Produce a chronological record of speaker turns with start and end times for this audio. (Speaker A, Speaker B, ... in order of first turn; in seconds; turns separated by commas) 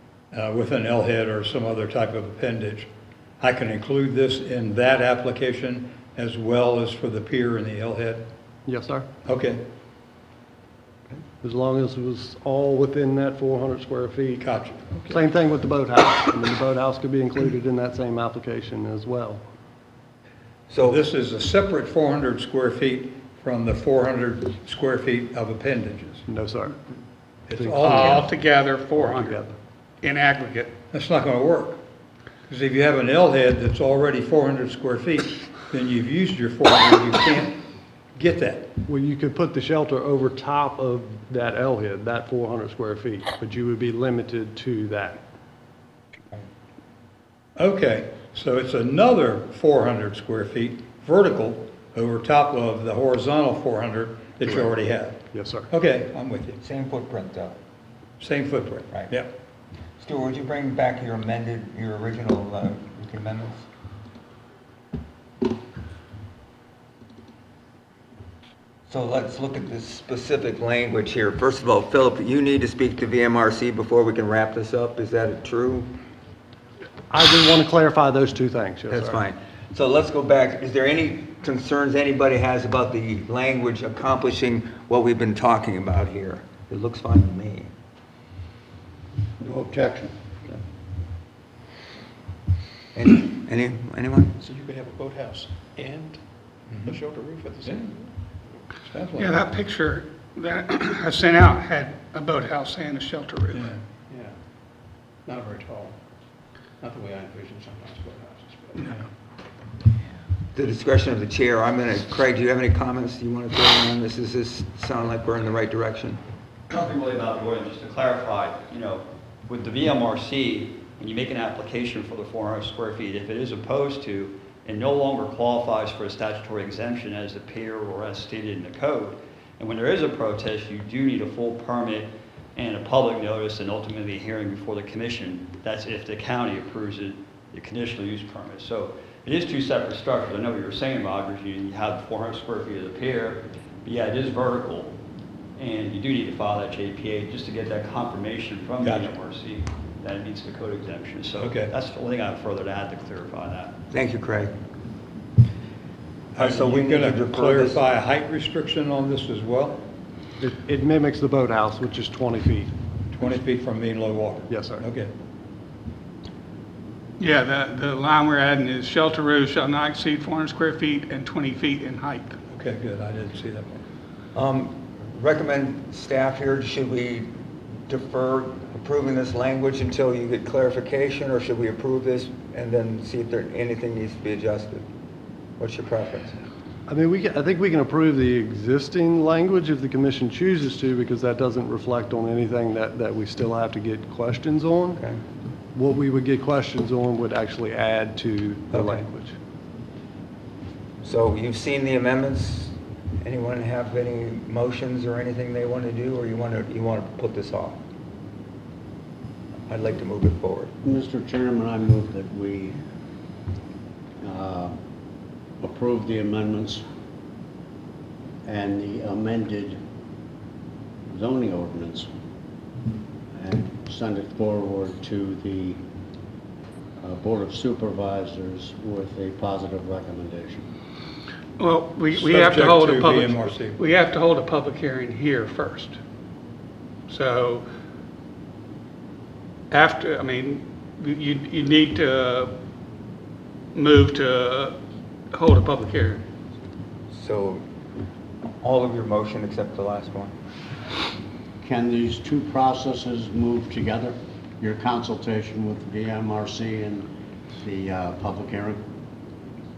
Speaker A: 0.3-2.9, Speaker A: 3.4-8.3, Speaker B: 8.7-9.1, Speaker A: 9.2-9.6, Speaker B: 11.4-14.5, Speaker A: 14.4-15.2, Speaker B: 15.1-19.4, Speaker C: 20.7-21.0, Speaker A: 20.8-26.2, Speaker B: 26.3-26.8, Speaker A: 27.5-28.2, Speaker B: 27.5-28.3, Speaker D: 27.8-29.5, Speaker B: 29.0-29.5, Speaker D: 30.0-30.7, Speaker A: 30.9-31.8, Speaker A: 32.5-37.6, Speaker A: 38.1-38.8, Speaker B: 38.9-45.2, Speaker A: 47.6-56.6, Speaker B: 55.3-55.7, Speaker C: 56.6-57.5, Speaker A: 58.2-59.3, Speaker C: 60.0-63.7, Speaker C: 68.9-75.9, Speaker B: 77.1-79.2, Speaker C: 78.9-87.7, Speaker E: 89.4-90.1, Speaker C: 93.0-94.4, Speaker F: 94.7-96.0, Speaker F: 96.9-97.7, Speaker A: 98.9-99.4, Speaker D: 99.2-103.8, Speaker A: 103.5-103.8, Speaker F: 105.3-105.9, Speaker F: 106.8-108.2, Speaker C: 110.5-116.2, Speaker G: 116.7-145.0, Speaker G: 145.6-153.8, Speaker A: 148.8-149.1, Speaker A: 151.4-151.7, Speaker C: 153.9-154.5, Speaker C: 156.4-157.8, Speaker A: 156.4-159.8, Speaker B: 160.4-162.7, Speaker A: 163.1-165.1, Speaker B: 164.5-164.9, Speaker D: 167.2-172.4, Speaker A: 172.5-173.8, Speaker C: 174.3-177.3, Speaker C: 177.9-184.8, Speaker C: 185.6-186.4, Speaker B: 186.9-195.0, Speaker B: 195.8-199.3, Speaker C: 198.7-199.0, Speaker C: 201.0-207.8, Speaker C: 209.7-210.7, Speaker E: 210.8-212.8, Speaker E: 214.2-214.8, Speaker E: 215.6-216.8, Speaker E: 218.4-219.8, Speaker E: 221.1-222.1, Speaker E: 223.3-225.8, Speaker E: 227.0-230.7, Speaker D: 231.6-236.0, Speaker A: 232.1-233.8, Speaker D: 237.1-237.7, Speaker D: 239.7-242.6, Speaker D: 243.7-244.8, Speaker D: 245.3-246.3, Speaker C: 247.1-247.7, Speaker C: 248.6-250.3, Speaker E: 251.6-257.1, Speaker E: 257.6-258.8